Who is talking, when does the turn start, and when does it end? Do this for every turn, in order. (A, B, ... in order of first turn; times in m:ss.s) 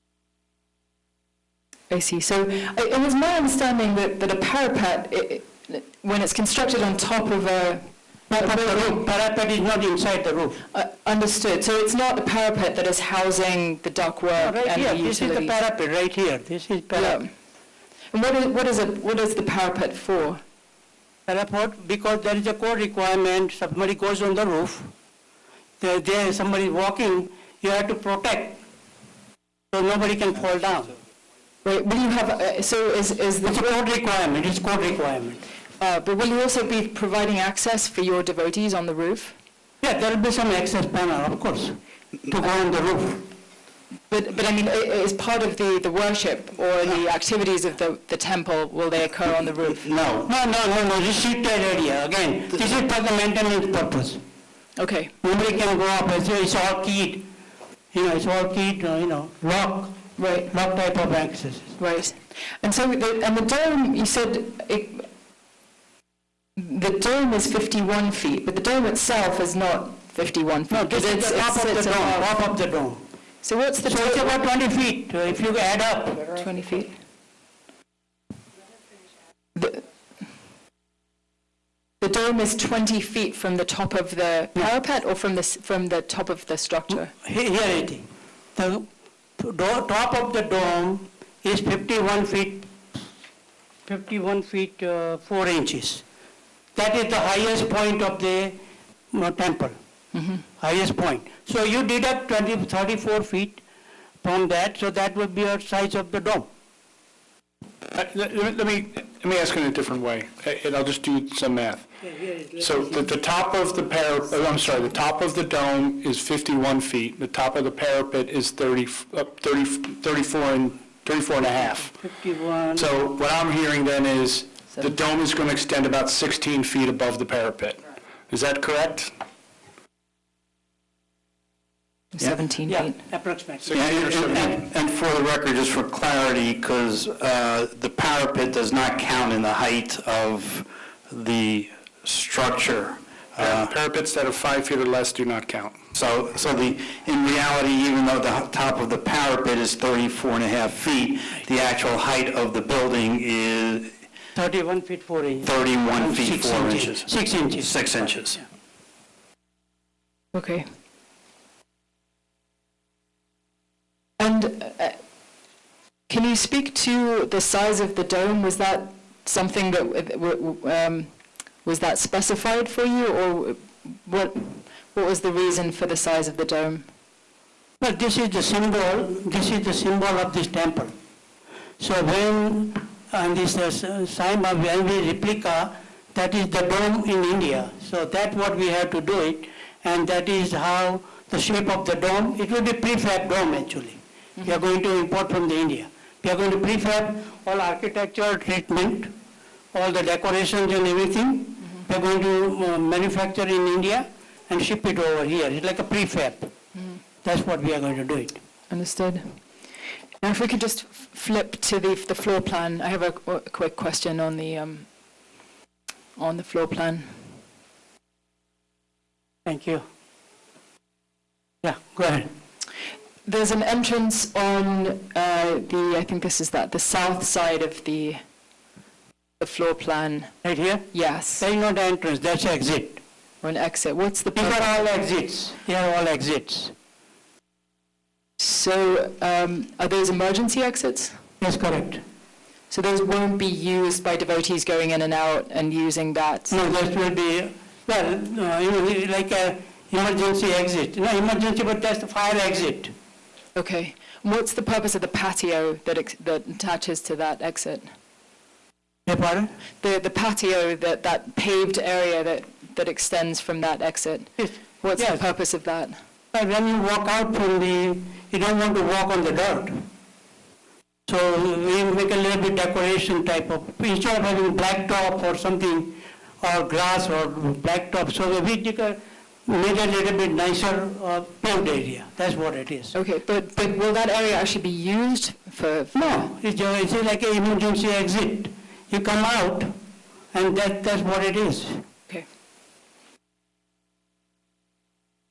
0:01.9-0:09.0 A
0:08.3-0:10.6 B
0:10.7-0:15.6 A
0:14.4-0:17.2 B
0:16.9-0:17.3 A
0:18.1-0:20.4 A
0:21.3-0:24.9 B
0:25.8-0:28.6 B
0:29.7-0:30.9 B
0:31.6-0:33.7 A
0:33.4-0:35.4 B
0:35.8-0:39.4 A
0:39.8-0:43.3 B
0:44.1-0:49.9 A
0:50.1-0:54.2 B
0:54.8-0:55.1 A
0:55.2-0:57.3 B
0:57.9-1:01.8 B
1:00.2-1:00.5 A
1:01.8-1:05.1 A
1:06.6-1:12.3 A
1:10.7-1:13.0 B
1:13.4-1:14.3 A
1:13.8-1:16.3 B
1:16.3-1:16.9 A
1:19.6-1:19.8 A
1:22.0-1:27.1 A
1:27.2-1:28.8 B
1:29.4-1:32.7 B
1:33.9-1:36.0 B
1:36.8-1:38.6 B
1:39.1-1:39.8 B
1:40.1-1:40.4 A
1:40.6-1:43.6 B
1:44.2-1:46.5 B
1:47.9-1:51.9 C
1:52.0-1:53.1 B
1:52.6-2:01.9 C
2:01.8-2:02.9 B
2:02.7-2:09.1 C
2:12.1-2:13.0 A
2:12.7-2:14.5 B
2:13.6-2:14.6 C
2:13.7-2:23.7 D
2:23.4-2:25.8 C
2:25.9-2:34.0 D
2:34.3-2:37.8 B
2:35.4-2:38.4 D
2:40.3-2:40.6 A
2:44.2-2:45.0 A
2:46.1-2:51.1 A
2:51.6-2:56.9 A
2:57.8-3:00.9 B
3:01.8-3:19.1 B
3:19.7-3:26.5 B
3:27.2-3:28.4 B
3:28.7-3:29.4 A
3:30.2-3:34.8 A
3:36.2-3:37.2 A
3:39.4-3:39.8 B
3:41.6-3:42.3 B
3:43.2-3:48.2 A
3:49.4-3:50.3 A
3:50.4-3:53.0 B
3:50.9-3:51.4 A
3:53.4-3:54.7 A
3:54.4-3:56.7 B
3:58.4-4:01.2 A
4:01.4-4:02.0 B
4:02.7-4:06.6 A
4:06.5-4:12.9 B
4:13.5-4:17.9 A
4:19.1-4:19.5 B
4:19.8-4:26.0 A
4:24.4-4:25.2 B
4:26.3-4:29.9 B
4:31.1-4:42.9 B
4:42.9-4:46.3 A
4:45.9-4:49.8 B
4:50.3-4:51.8 B